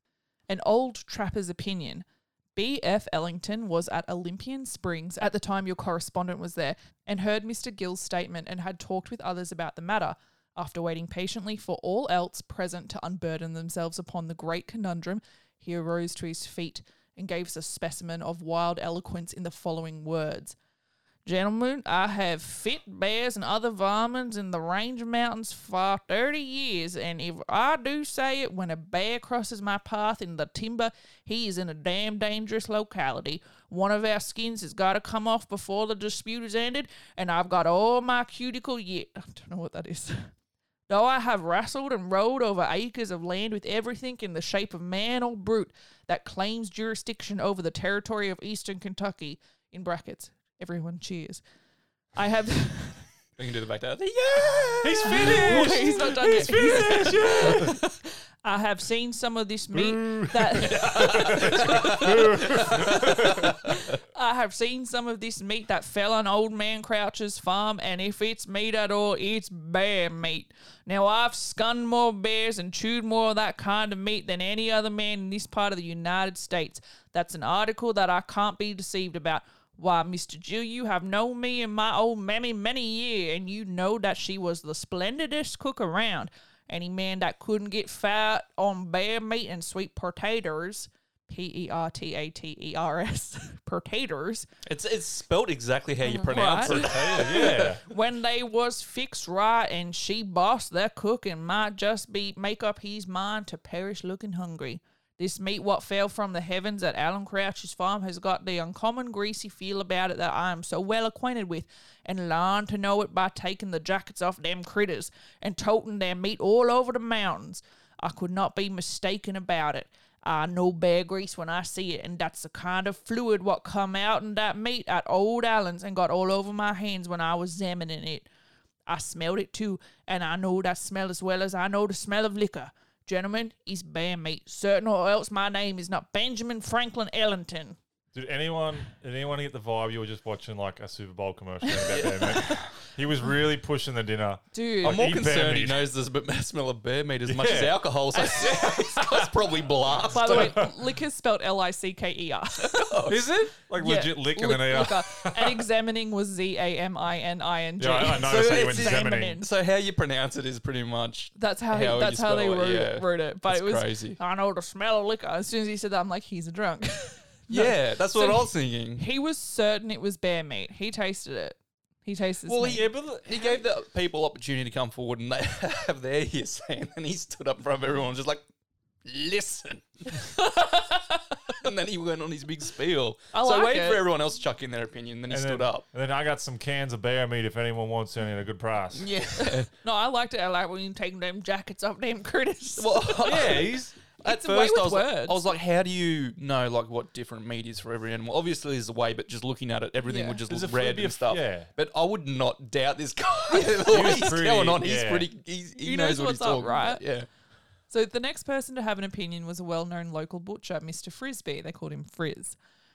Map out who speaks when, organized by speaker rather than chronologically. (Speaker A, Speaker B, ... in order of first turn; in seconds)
Speaker A: 0.5-20.6, 21.2-40.3, 40.9-51.4, 52.1-53.1, 55.0-94.5, 96.0-128.3, 128.9-137.8, 141.7-142.6, 144.5-145.1, 148.1-148.8, 150.1-152.8, 153.8-159.5, 161.4-173.6, 180.2-181.6, 183.3-184.0, 189.4-193.7, 194.2-195.5, 200.1-200.4, 203.5-204.4, 205.8-207.0, 207.9-212.6
Speaker B: 53.4-57.7, 60.6-63.5, 94.7-97.8, 144.8-150.7, 152.6-153.2, 158.1-164.2, 167.5-169.0, 172.5-178.4, 179.1-180.3, 181.6-185.8, 188.9-189.7, 192.8-207.3
Speaker C: 54.8-57.7, 59.7-63.6, 96.6-97.8, 138.1-145.9, 147.3-147.9, 148.5-149.3, 149.9-150.7, 153.1-155.7, 157.8-159.4, 185.3-189.1, 193.2-193.9, 200.5-201.7, 203.8-205.3